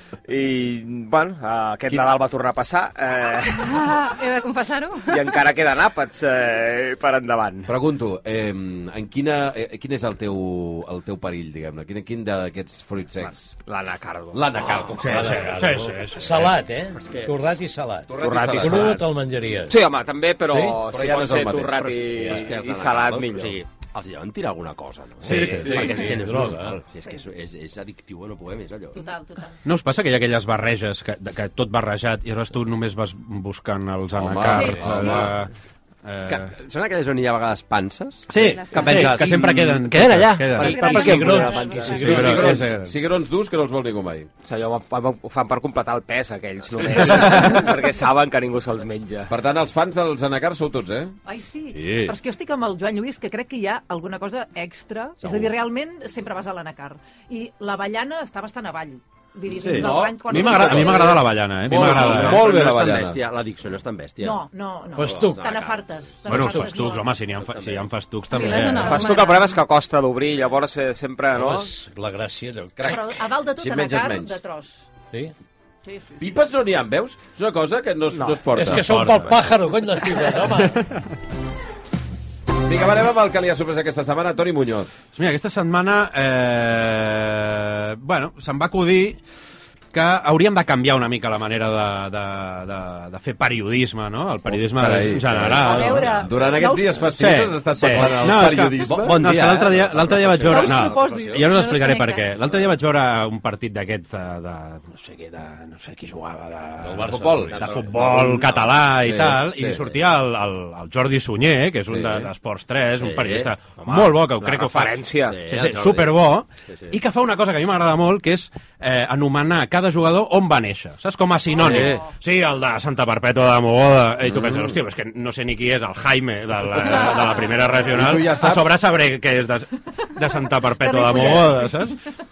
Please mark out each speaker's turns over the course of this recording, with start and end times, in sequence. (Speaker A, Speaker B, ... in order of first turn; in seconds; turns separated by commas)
Speaker A: 0.2-3.9, Speaker B: 3.7-5.2, Speaker A: 5.1-7.7, Speaker C: 7.7-13.5, Speaker A: 13.6-14.9, Speaker C: 14.3-15.4, Speaker D: 15.0-19.8, Speaker E: 15.1-16.5, Speaker C: 18.1-19.0, Speaker A: 18.1-19.1, Speaker A: 19.6-23.6, Speaker D: 20.5-20.8, Speaker C: 20.9-21.9, Speaker F: 21.8-29.0, Speaker E: 25.2-26.0, Speaker C: 25.2-25.9, Speaker D: 25.3-26.8, Speaker G: 28.9-29.5, Speaker E: 29.6-35.5, Speaker C: 34.2-35.3, Speaker G: 34.5-35.3, Speaker E: 36.0-36.5, Speaker F: 36.3-42.5, Speaker E: 38.3-41.1, Speaker B: 38.3-39.5, Speaker B: 40.6-42.1, Speaker D: 40.7-42.6, Speaker E: 42.0-42.9, Speaker C: 42.0-44.3, Speaker A: 44.4-49.3, Speaker C: 49.3-51.1, Speaker G: 51.2-61.2, Speaker F: 51.8-52.1, Speaker F: 55.2-55.5, Speaker C: 59.5-63.2, Speaker E: 59.6-62.5, Speaker F: 60.8-61.1, Speaker F: 61.7-64.4, Speaker G: 64.2-67.2, Speaker D: 64.9-65.6, Speaker F: 65.0-66.7, Speaker E: 66.3-69.1, Speaker F: 67.4-67.8, Speaker B: 68.3-69.6, Speaker A: 68.7-71.7, Speaker D: 71.3-72.9, Speaker C: 72.8-74.4, Speaker G: 72.8-74.9, Speaker G: 75.8-76.3, Speaker C: 76.2-79.2, Speaker A: 78.1-78.4, Speaker D: 78.5-80.8, Speaker E: 78.7-79.3, Speaker C: 82.6-84.9, Speaker E: 85.1-89.2, Speaker E: 89.9-96.3, Speaker C: 94.6-99.2, Speaker G: 95.5-97.1, Speaker E: 97.2-132.0, Speaker F: 98.8-101.1, Speaker G: 100.5-101.5, Speaker B: 101.5-102.4, Speaker D: 106.8-107.6, Speaker C: 107.0-107.7, Speaker F: 107.5-108.7, Speaker C: 109.0-109.8, Speaker F: 112.9-113.5, Speaker A: 113.8-115.4, Speaker F: 115.3-116.1, Speaker F: 116.7-117.0, Speaker F: 121.6-122.1, Speaker G: 121.6-121.9, Speaker C: 124.3-124.7, Speaker C: 127.9-128.7, Speaker G: 130.8-131.7